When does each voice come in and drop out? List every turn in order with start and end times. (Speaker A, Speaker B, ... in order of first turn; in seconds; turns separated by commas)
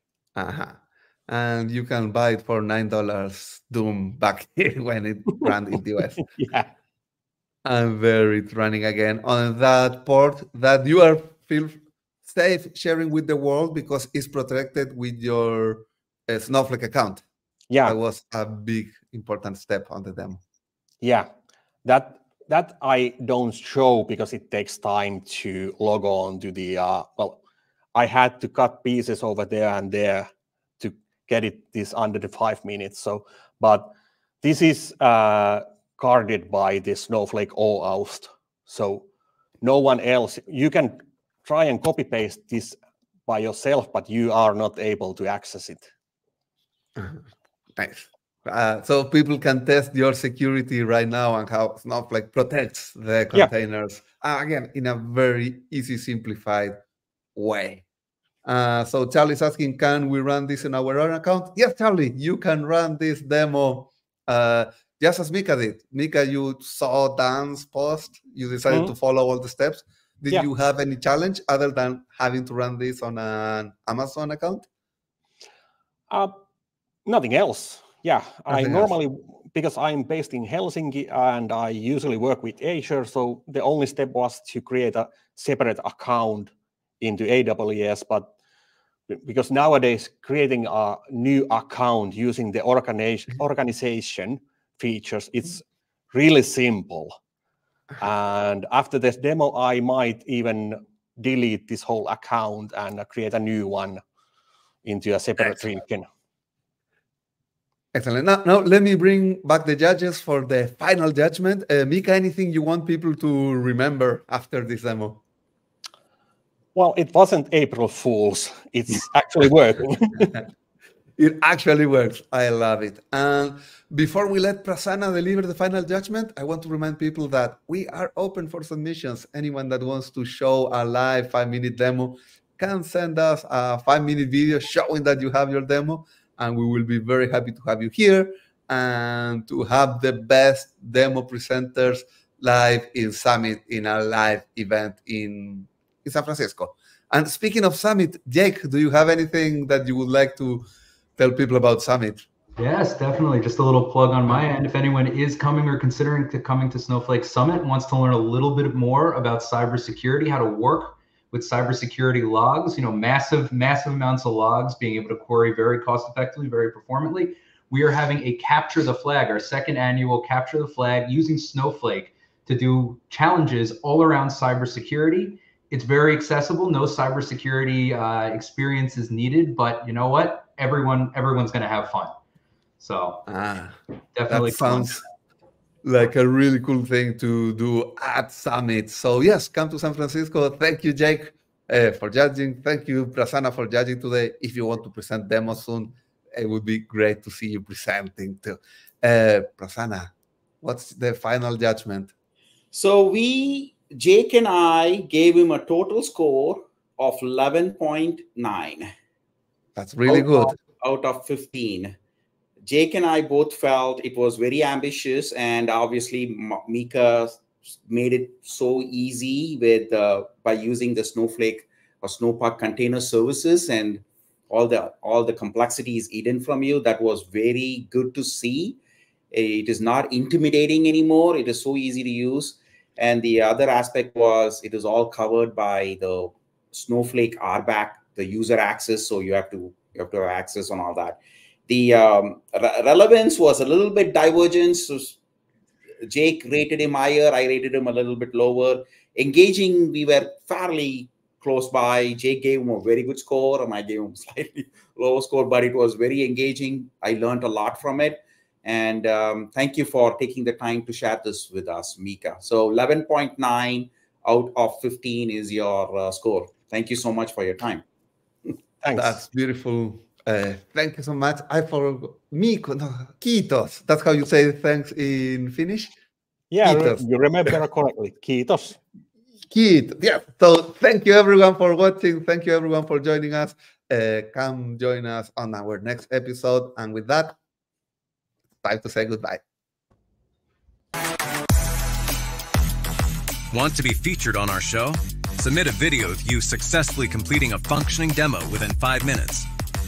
Speaker A: 0.3-6.2, Speaker B: 6.2-6.7, Speaker A: 7.6-17.2, Speaker B: 17.7-18.0, Speaker A: 17.8-20.4, Speaker B: 21.0-21.3, Speaker B: 21.8-27.4, Speaker B: 27.9-33.9, Speaker B: 34.4-39.0, Speaker B: 39.6-45.9, Speaker A: 47.0-47.2, Speaker A: 47.8-56.8, Speaker A: 57.4-57.8, Speaker A: 58.4-74.7, Speaker B: 68.7-68.9, Speaker B: 76.1-76.4, Speaker B: 77.0-88.3, Speaker A: 78.5-78.9, Speaker B: 89.1-97.2, Speaker B: 98.0-104.0, Speaker B: 104.8-106.1, Speaker A: 107.9-115.2, Speaker B: 116.7-120.4, Speaker A: 121.2-150.6, Speaker A: 151.2-152.2, Speaker C: 152.6-182.1, Speaker C: 182.8-183.2, Speaker A: 183.3-183.8, Speaker C: 184.1-185.1, Speaker A: 184.3-185.0, Speaker A: 185.8-200.1, Speaker A: 200.6-202.1, Speaker D: 202.7-208.9, Speaker A: 209.8-210.5, Speaker D: 210.1-211.9, Speaker D: 212.6-228.8, Speaker D: 229.3-245.2, Speaker D: 246.0-267.8, Speaker B: 268.8-269.2, Speaker A: 268.9-275.9, Speaker B: 276.5-278.8, Speaker A: 276.6-277.0, Speaker A: 279.5-287.4, Speaker A: 288.6-289.4, Speaker E: 293.5-299.5